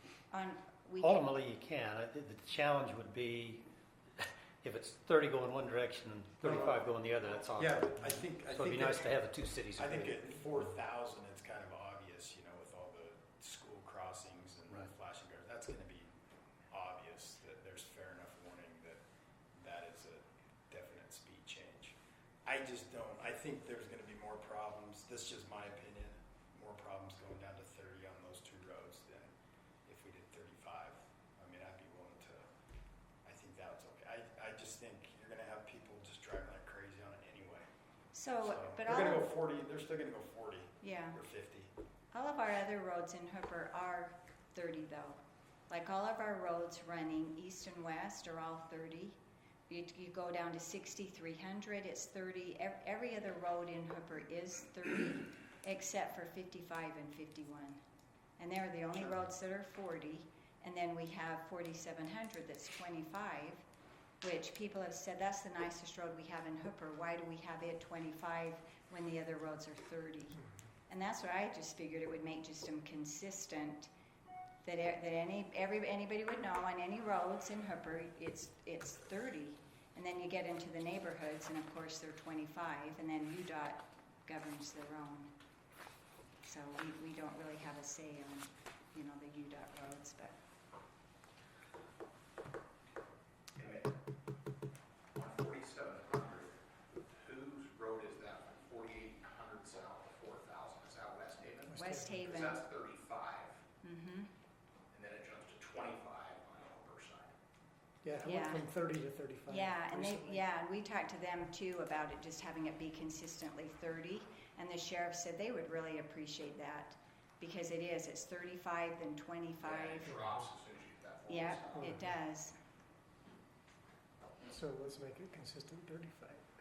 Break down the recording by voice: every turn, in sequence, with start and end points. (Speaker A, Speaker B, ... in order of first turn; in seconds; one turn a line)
Speaker A: 0.3-1.2
Speaker B: 1.0-3.7
Speaker B: 4.2-10.3
Speaker C: 6.4-6.9
Speaker C: 7.4-9.2
Speaker C: 9.8-16.1
Speaker C: 16.7-19.0
Speaker C: 19.6-29.3
Speaker C: 29.9-32.5
Speaker C: 33.2-37.7
Speaker A: 38.1-39.3
Speaker C: 38.4-41.7
Speaker A: 40.8-41.2
Speaker A: 42.1-49.2
Speaker A: 49.7-57.8
Speaker A: 58.4-63.6
Speaker A: 64.2-73.9
Speaker A: 74.7-85.3
Speaker A: 86.4-90.3
Speaker D: 93.6-93.9
Speaker D: 95.2-103.6
Speaker E: 101.7-102.3
Speaker A: 101.7-102.7
Speaker A: 103.8-104.3
Speaker D: 104.9-107.3
Speaker E: 108.0-110.4
Speaker A: 108.2-108.7
Speaker A: 109.5-120.4
Speaker D: 119.6-121.9
Speaker A: 121.3-122.5
Speaker E: 121.7-122.1
Speaker E: 124.5-126.5